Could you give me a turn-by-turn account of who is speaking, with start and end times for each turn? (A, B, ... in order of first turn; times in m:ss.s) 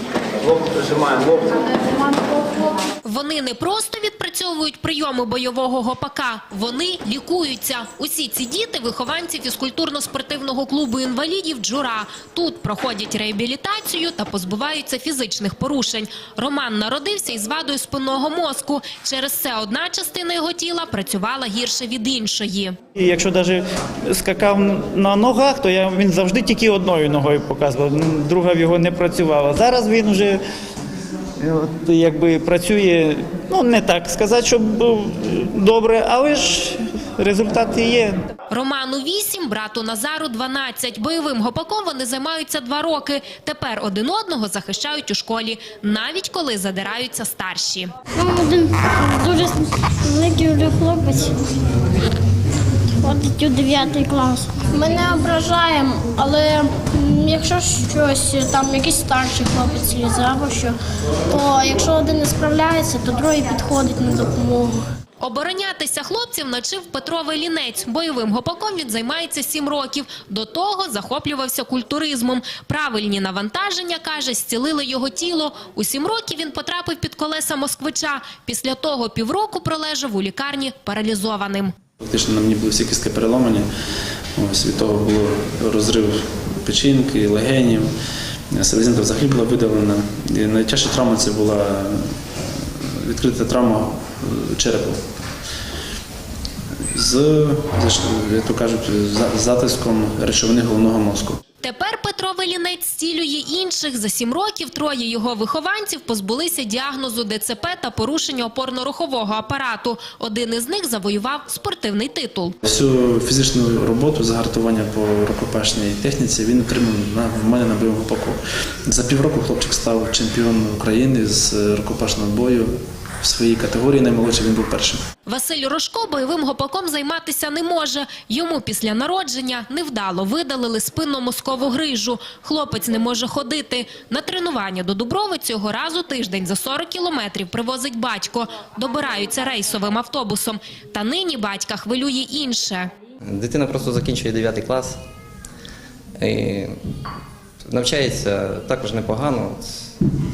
0:03.0-0:22.8 A
0:23.0-0:30.4 B
0:31.4-0:38.2 B
0:38.5-0:47.9 A
0:48.1-0:51.6 C
0:52.9-1:00.8 C
1:01.3-1:04.8 C
1:05.2-1:21.7 A
1:22.0-1:23.7 D
1:24.4-1:27.9 D
1:28.5-1:35.0 D
1:36.9-1:41.4 D
1:41.6-1:52.5 A
1:52.6-2:02.7 D
2:03.2-2:05.0 D
2:05.3-2:22.9 A
2:23.2-2:25.0 E
2:26.2-2:26.8 E
2:27.7-2:29.9 E